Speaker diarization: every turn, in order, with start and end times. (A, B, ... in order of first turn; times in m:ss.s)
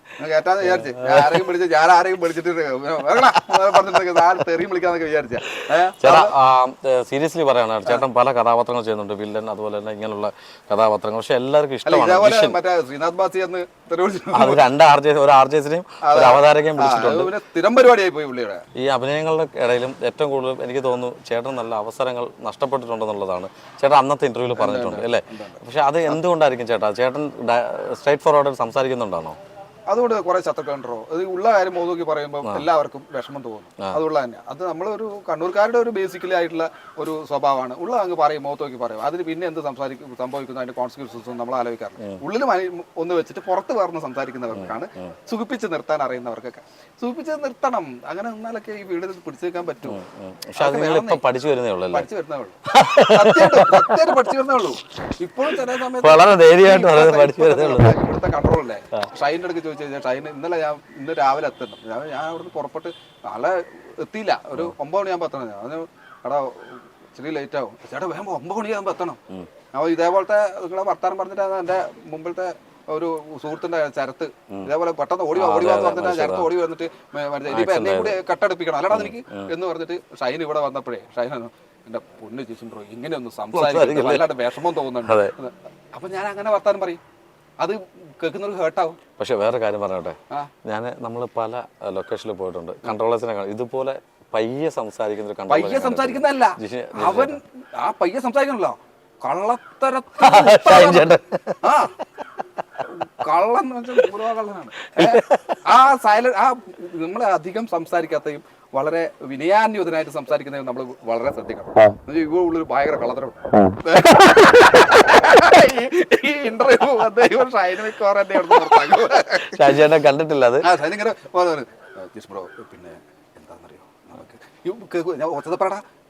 0:00.2-0:06.3 A
0:00.8-0:01.5 B
0:03.4-0:04.2 B
0:06.0-0:12.6 B
0:11.8-0:14.7 A
0:14.3-0:17.3 B
0:16.0-0:18.6 A
0:18.8-0:29.4 B
0:24.5-0:26.2 A
0:29.9-0:50.0 A
0:49.8-0:52.1 B
0:50.6-0:51.2 A
0:51.9-1:09.2 A
0:52.7-0:54.1 B
0:56.0-0:58.0 B
1:09.7-1:27.0 A
1:15.3-1:16.5 B
1:17.5-1:18.2 B
1:18.9-1:19.5 B
1:23.5-1:24.2 B
1:25.0-1:25.3 B
1:27.6-1:29.0 A
1:29.2-1:37.4 B
1:35.5-1:41.9 A
1:40.2-1:41.6 B
1:42.9-1:59.8 A
1:44.9-1:45.6 B
1:59.4-2:00.7 B
2:00.6-2:05.8 A